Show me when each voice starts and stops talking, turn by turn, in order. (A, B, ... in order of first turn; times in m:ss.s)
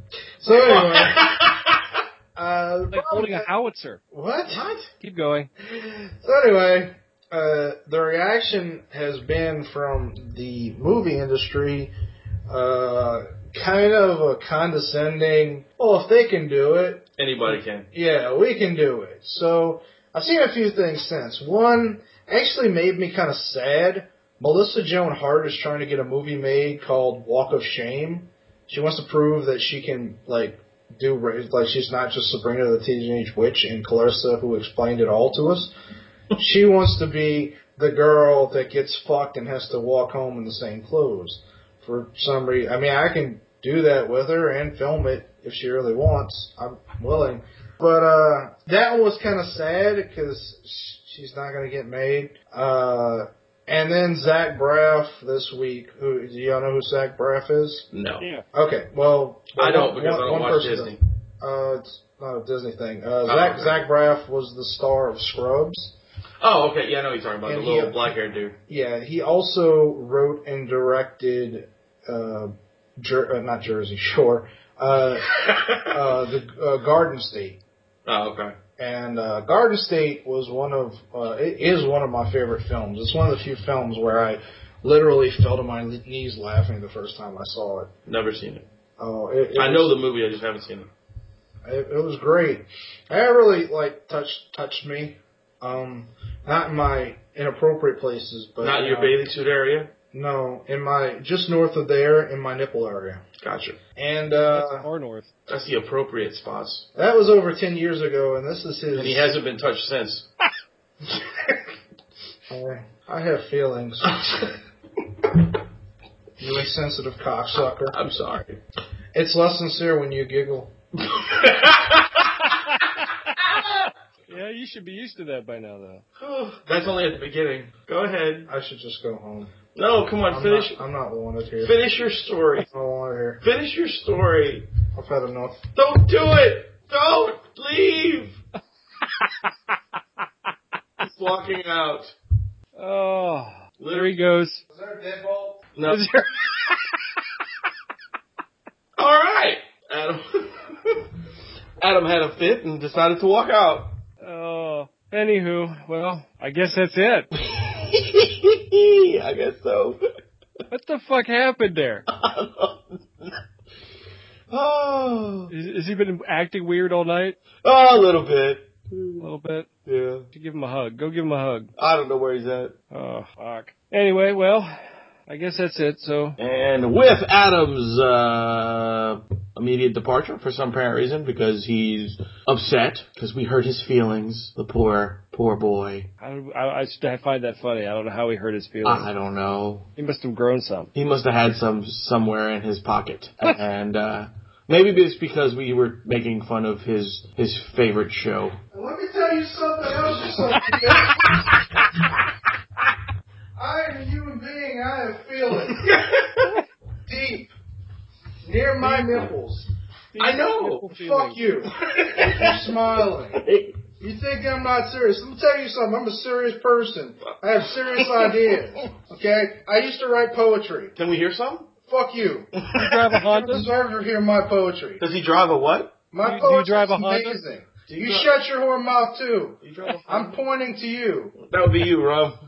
0:00.4-0:01.4 A
0:00.5-0:01.8 B
0:02.4-0:03.5 A
0:02.9-0:04.0 C
0:04.1-0:04.6 A
0:04.5-0:04.9 B
0:05.0-0:05.5 C
0:06.2-0:11.9 A
0:12.5-0:35.7 A
0:17.2-0:17.9 B
0:36.3-0:57.8 A
0:57.9-0:58.3 B
0:58.5-1:05.9 A
0:59.6-1:01.0 B
1:03.2-1:03.8 B
1:06.4-1:08.6 B
1:07.4-1:08.1 A
1:08.7-1:17.6 A
1:15.4-1:15.9 B
1:18.0-1:18.5 B
1:18.8-1:27.9 A
1:28.0-1:28.6 B
1:29.0-1:30.0 A
1:29.5-1:30.9 B
1:31.6-1:39.2 A
1:38.6-1:39.9 B
1:40.1-1:43.2 A
1:43.4-1:43.8 B
1:44.0-1:44.9 A
1:44.4-1:45.3 C
1:45.5-1:46.9 B
1:46.9-1:49.3 A
1:48.9-1:50.3 B
1:52.5-1:54.2 A
1:54.1-1:54.5 B
1:56.4-1:57.9 A
1:57.9-1:58.6 B
1:59.1-2:00.7 A
2:01.1-2:02.3 B
2:04.3-2:06.0 C
2:06.2-2:08.5 B
2:08.5-2:09.5 A
2:09.7-2:10.8 B
2:10.3-2:11.7 A
2:11.6-2:12.7 B
2:12.6-2:13.4 A
2:13.4-2:14.7 B
2:14.9-2:15.6 A
2:15.7-2:18.4 B
2:21.0-2:22.1 B
2:22.8-2:24.6 C
2:23.8-2:24.2 B
2:24.7-2:25.6 A
2:25.8-2:26.0 B
2:25.9-2:26.9 C
2:29.0-2:31.0 B
2:31.8-2:33.9 B
2:34.2-2:37.3 C
2:37.4-2:40.0 B
2:40.7-2:42.1 C
2:42.1-2:43.3 B
2:44.5-2:45.5 B
2:45.5-2:47.4 C
2:47.6-2:49.2 B
2:49.2-2:49.7 C
2:49.8-2:50.3 B
2:50.3-2:51.7 C
2:51.8-2:52.7 B
2:52.9-2:54.7 C
2:55.3-2:56.4 C
2:56.4-3:06.1 B
3:06.2-3:09.1 C
3:08.8-3:09.9 B
3:10.0-3:10.9 C
3:10.9-3:18.6 B
3:18.7-3:21.4 A
3:23.6-3:26.0 A
3:25.8-3:26.5 B
3:27.1-3:27.5 A
3:28.4-3:29.7 A
3:28.8-3:29.2 C
3:30.1-3:31.4 C
3:30.2-3:30.9 B
3:30.9-3:33.4 A
3:31.7-3:32.7 B
3:33.3-3:33.7 B
3:34.0-3:40.9 A
3:38.0-3:38.4 B
3:41.0-3:41.7 B
3:41.8-3:42.5 A
3:42.6-3:43.0 B
3:42.7-3:43.7 C
3:43.3-3:45.0 A
3:45.0-3:45.9 B
3:46.1-3:51.4 A
3:46.2-3:47.4 C
3:47.8-3:48.3 B
3:49.6-3:50.4 B
3:51.4-3:52.4 B